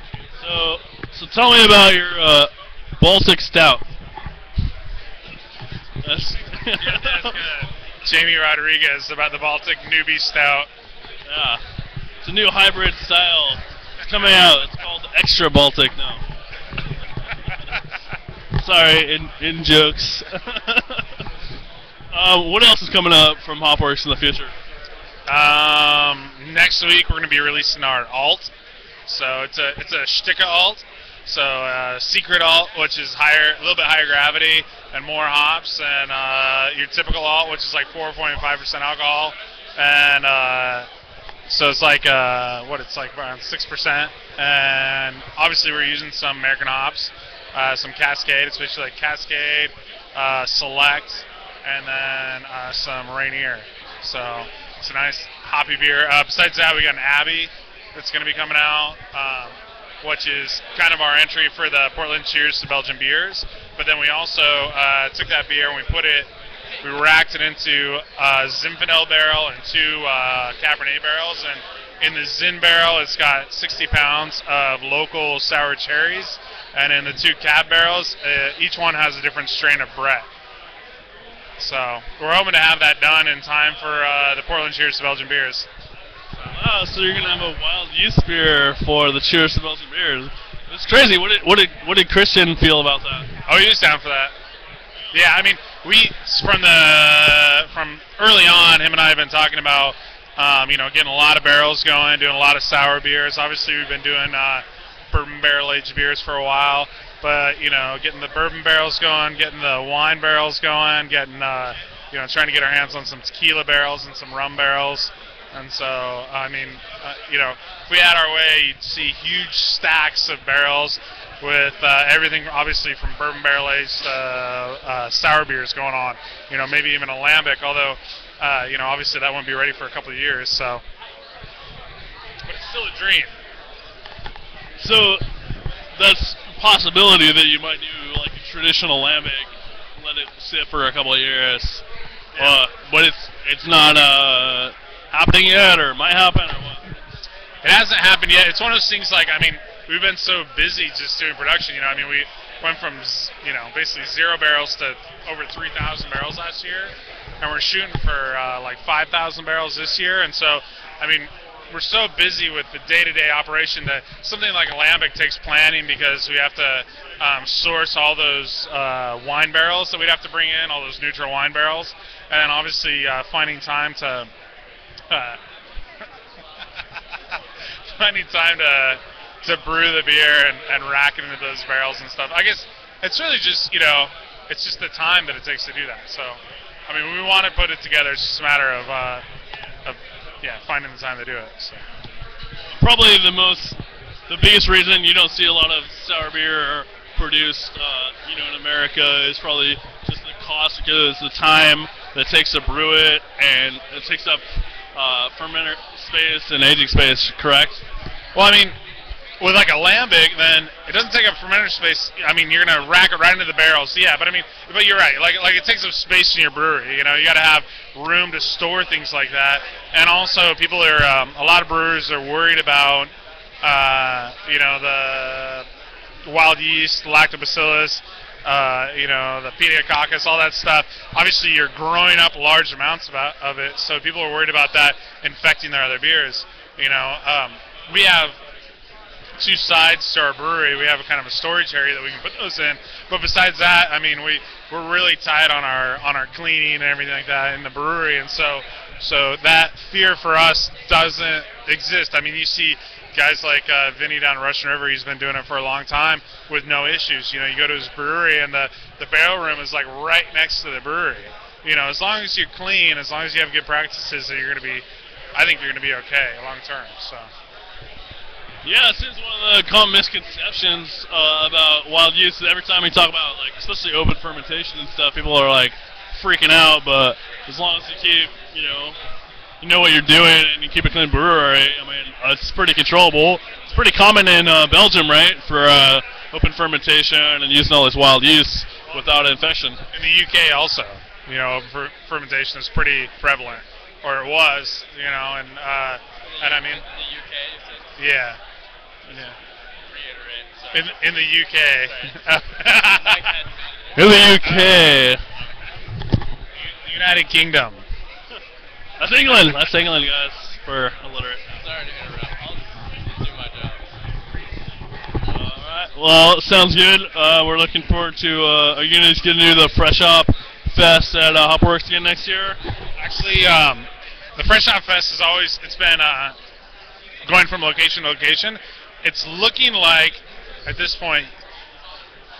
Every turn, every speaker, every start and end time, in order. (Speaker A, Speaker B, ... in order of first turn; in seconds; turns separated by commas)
Speaker A: 0.4-3.8, Speaker A: 6.0-7.3, Speaker B: 6.8-10.7, Speaker A: 11.2-11.6, Speaker A: 12.2-16.2, Speaker A: 18.6-21.2, Speaker A: 22.1-24.5, Speaker B: 25.3-28.5, Speaker B: 29.1-40.9, Speaker B: 41.5-66.3, Speaker B: 66.8-80.3, Speaker B: 81.6-85.7, Speaker A: 86.5-93.3, Speaker B: 93.5-94.3, Speaker B: 95.1-130.8, Speaker B: 132.4-133.3, Speaker A: 134.8-135.2, Speaker A: 135.9-141.8, Speaker B: 142.3-142.6, Speaker A: 142.4-146.9, Speaker B: 147.6-174.3, Speaker B: 175.1-175.4, Speaker B: 176.8-189.2, Speaker B: 189.8-191.8, Speaker A: 192.7-207.8, Speaker B: 208.3-208.8, Speaker B: 209.4-223.1, Speaker B: 223.6-225.7, Speaker B: 226.2-238.4, Speaker B: 239.4-267.3, Speaker A: 268.6-278.9, Speaker A: 279.6-289.8, Speaker B: 289.9-296.8, Speaker C: 296.3-298.0, Speaker B: 298.0-298.4, Speaker C: 299.9-300.9, Speaker B: 300.7-303.3, Speaker C: 301.9-302.2, Speaker C: 302.9-304.2, Speaker A: 303.9-305.2, Speaker B: 304.4-304.9, Speaker B: 306.6-307.8, Speaker A: 309.0-311.5, Speaker C: 311.5-313.9, Speaker A: 315.3-322.6, Speaker B: 322.9-326.3, Speaker B: 327.2-331.3